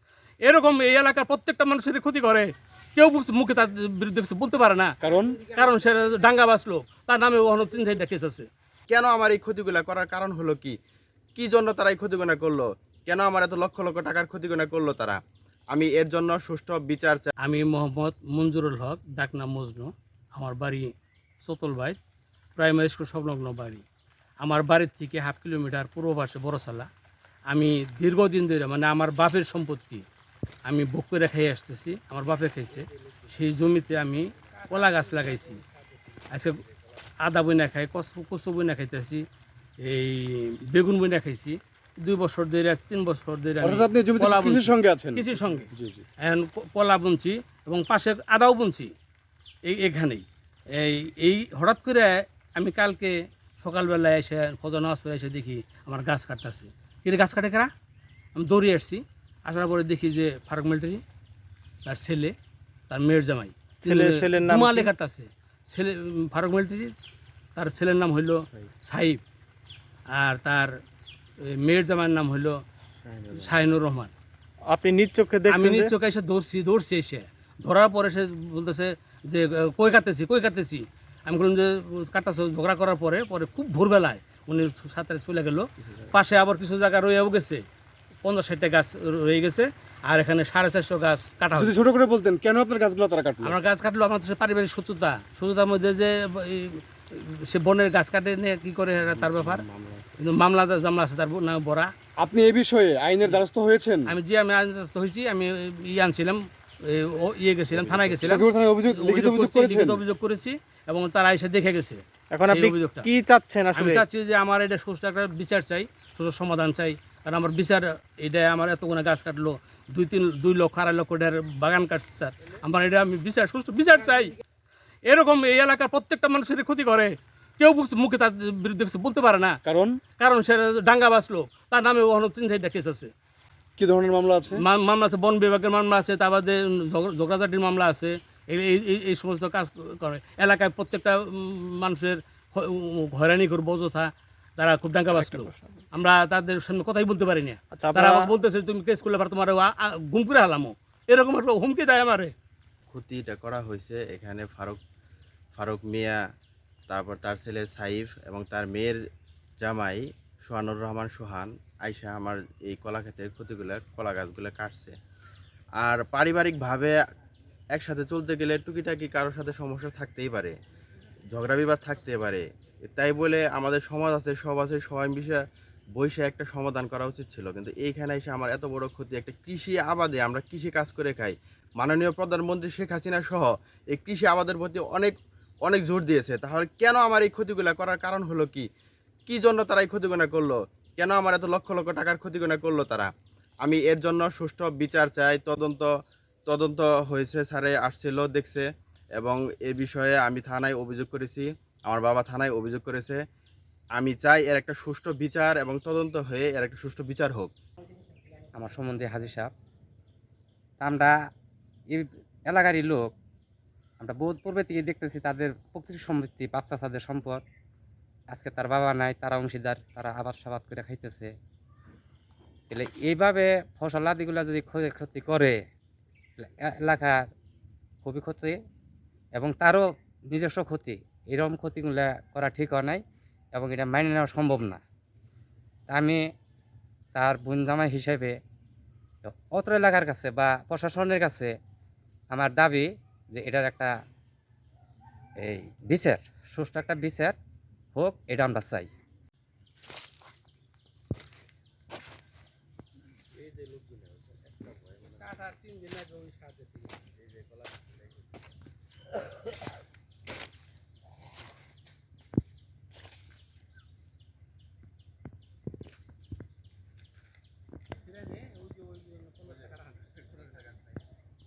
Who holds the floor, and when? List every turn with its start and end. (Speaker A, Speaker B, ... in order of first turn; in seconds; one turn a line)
Speaker A: 0.4-8.5
Speaker B: 5.0-5.4
Speaker C: 8.9-10.8
Speaker C: 11.4-15.2
Speaker C: 15.7-17.3
Speaker A: 17.4-20.9
Speaker A: 21.4-22.0
Speaker A: 22.6-23.9
Speaker A: 24.4-26.9
Speaker A: 27.5-30.1
Speaker A: 30.7-35.6
Speaker A: 36.3-36.6
Speaker A: 37.2-39.2
Speaker A: 39.8-48.9
Speaker B: 43.6-46.0
Speaker A: 49.6-57.7
Speaker A: 58.4-61.0
Speaker A: 61.9-62.4
Speaker A: 62.9-66.9
Speaker D: 63.8-64.9
Speaker A: 67.6-69.2
Speaker A: 70.1-70.8
Speaker A: 71.4-72.6
Speaker C: 73.1-73.5
Speaker A: 73.3-74.1
Speaker D: 74.7-75.9
Speaker A: 75.5-87.6
Speaker A: 88.2-91.7
Speaker B: 91.6-93.5
Speaker A: 93.4-99.7
Speaker B: 99.2-100.1
Speaker A: 100.2-101.9
Speaker B: 102.2-104.1
Speaker A: 104.1-113.1
Speaker B: 107.8-110.0
Speaker D: 112.3-114.0
Speaker A: 113.7-124.3
Speaker A: 125.1-129.6
Speaker B: 129.7-130.0
Speaker A: 130.2-133.1
Speaker B: 133.8-134.6
Speaker A: 134.5-152.3
Speaker D: 145.2-145.8
Speaker D: 147.7-148.3
Speaker C: 152.9-154.8
Speaker C: 155.6-156.2
Speaker C: 156.9-159.0
Speaker C: 159.6-164.9
Speaker C: 165.8-167.0
Speaker C: 167.7-170.5
Speaker C: 171.3-175.4
Speaker C: 176.0-185.2
Speaker C: 185.7-188.7
Speaker C: 189.3-193.1
Speaker C: 193.6-195.9
Speaker C: 196.5-203.2
Speaker C: 204.0-207.5
Speaker E: 208.6-209.5
Speaker E: 210.8-211.2
Speaker E: 211.9-213.1
Speaker E: 214.0-217.4
Speaker E: 218.3-221.3
Speaker E: 222.7-225.6
Speaker E: 226.4-227.2
Speaker E: 228.0-228.6
Speaker E: 229.4-233.0
Speaker E: 233.6-234.8
Speaker E: 235.9-236.2
Speaker E: 237.2-238.3
Speaker E: 239.2-241.5
Speaker E: 242.3-243.9
Speaker E: 245.4-247.4
Speaker E: 247.9-248.9
Speaker A: 255.2-257.0
Speaker A: 268.1-270.6